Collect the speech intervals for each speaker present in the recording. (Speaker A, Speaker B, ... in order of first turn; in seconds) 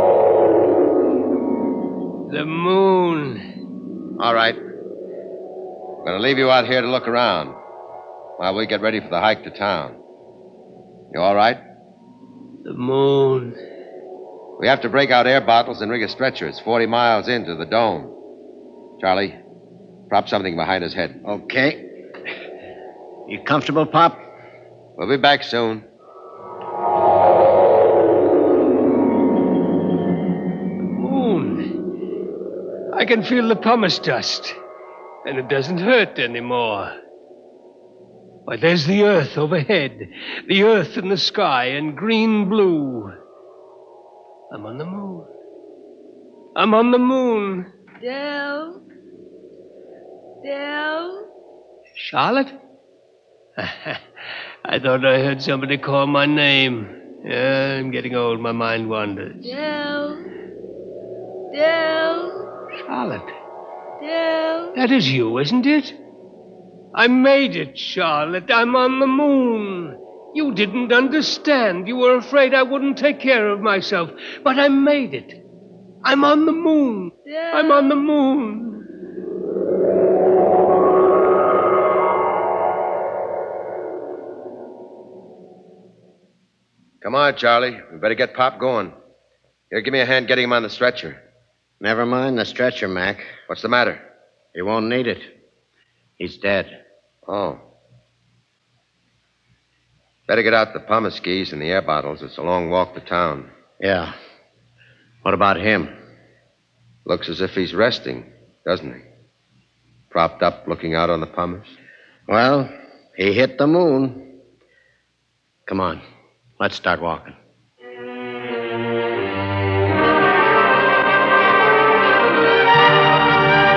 Speaker A: 2.3-3.4, 12.7-13.6, 30.9-31.7, 32.9-34.6, 35.2-37.0, 38.5-43.1, 44.5-45.3, 46.6-47.7, 52.0-52.6, 53.6-54.0, 54.6-59.5, 62.9-63.3, 64.8-66.0, 66.9-75.4, 76.0-78.8
Speaker B: 4.2-4.6, 6.0-7.5, 8.4-10.0, 11.1-11.6, 14.6-18.1, 19.0-19.4, 20.1-21.2, 25.0-25.9, 87.0-88.9, 89.7-91.2, 93.5-94.0, 97.3-97.6, 100.3-103.5, 107.1-109.0, 110.1-111.7
Speaker C: 21.2-21.8, 23.3-24.2, 91.8-93.4, 94.5-95.3, 96.2-96.8, 103.8-104.1, 105.2-105.9, 112.3-114.3, 115.7-116.0, 116.6-117.4
Speaker D: 48.0-48.8, 50.4-51.2, 59.4-60.2, 61.5-62.4, 64.0-64.8, 77.3-78.0